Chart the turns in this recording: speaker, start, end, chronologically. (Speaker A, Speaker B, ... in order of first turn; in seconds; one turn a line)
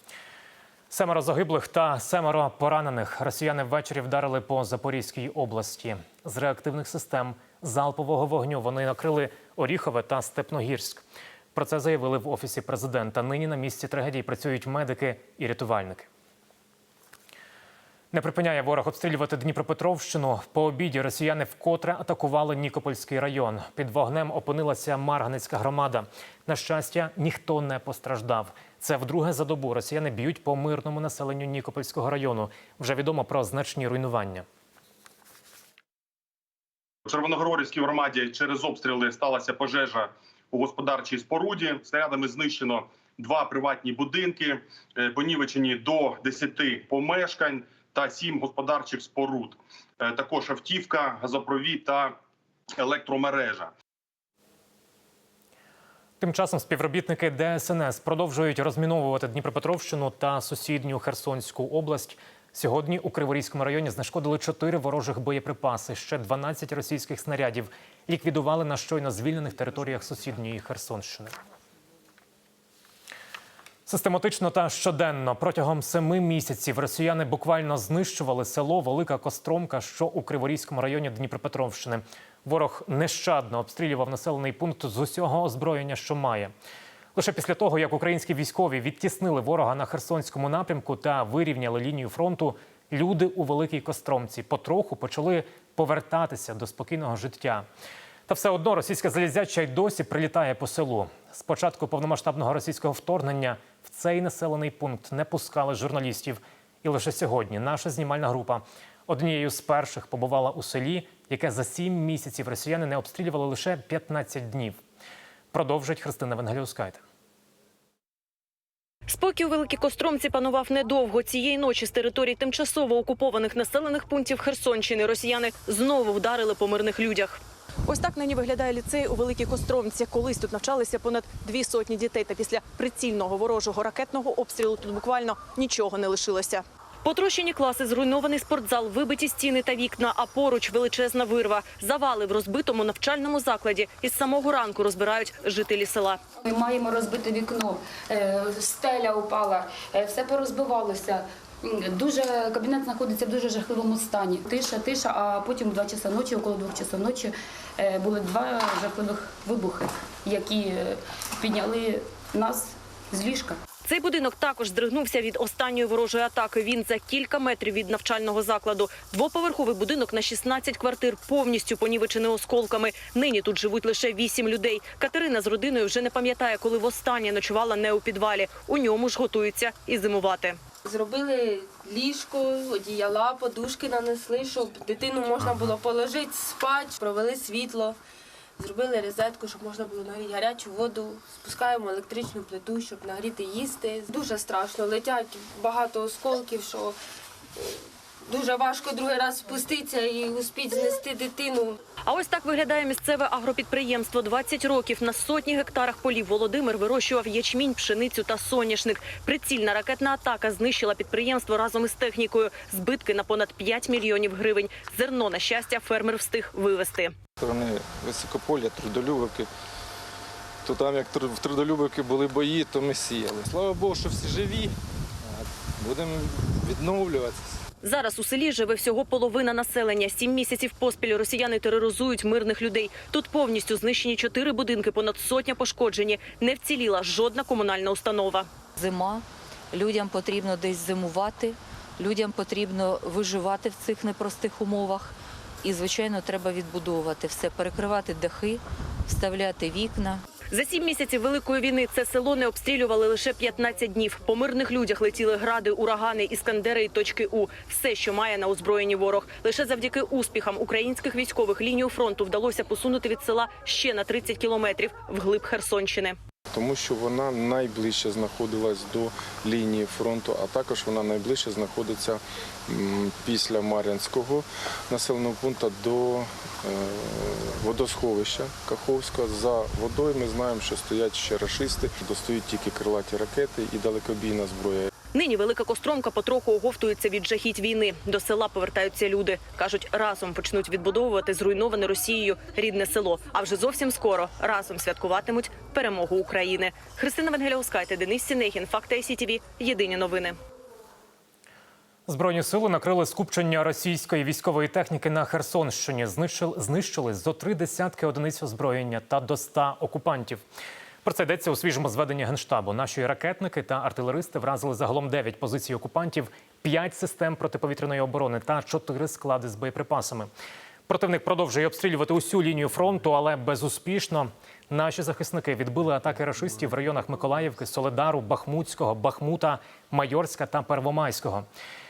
Speaker A: 0.9-11.0
Speaker A: 11.6-16.1
Speaker A: 18.1-34.5
Speaker B: 37.1-52.1
Speaker B: 52.8-53.7
Speaker A: 56.2-71.3
Speaker A: 73.9-86.5
Speaker A: 87.2-97.7
Speaker A: 98.3-114.8
Speaker A: 115.5-117.0
Speaker C: 119.1-146.2
Speaker D: 146.4-163.6
Speaker C: 163.9-180.6
Speaker E: 180.8-188.0
Speaker E: 188.6-197.0
Speaker E: 197.6-201.8
Speaker C: 202.1-217.1
Speaker F: 217.4-219.5
Speaker F: 220.7-224.7
Speaker F: 225.8-227.4
Speaker C: 227.8-238.5
Speaker G: 238.8-250.2
Speaker C: 250.5-266.2
Speaker F: 266.5-284.9
Speaker C: 285.1-300.4
Speaker A: 302.1-310.4
Speaker A: 311.1-320.3
Speaker A: 320.9-331.5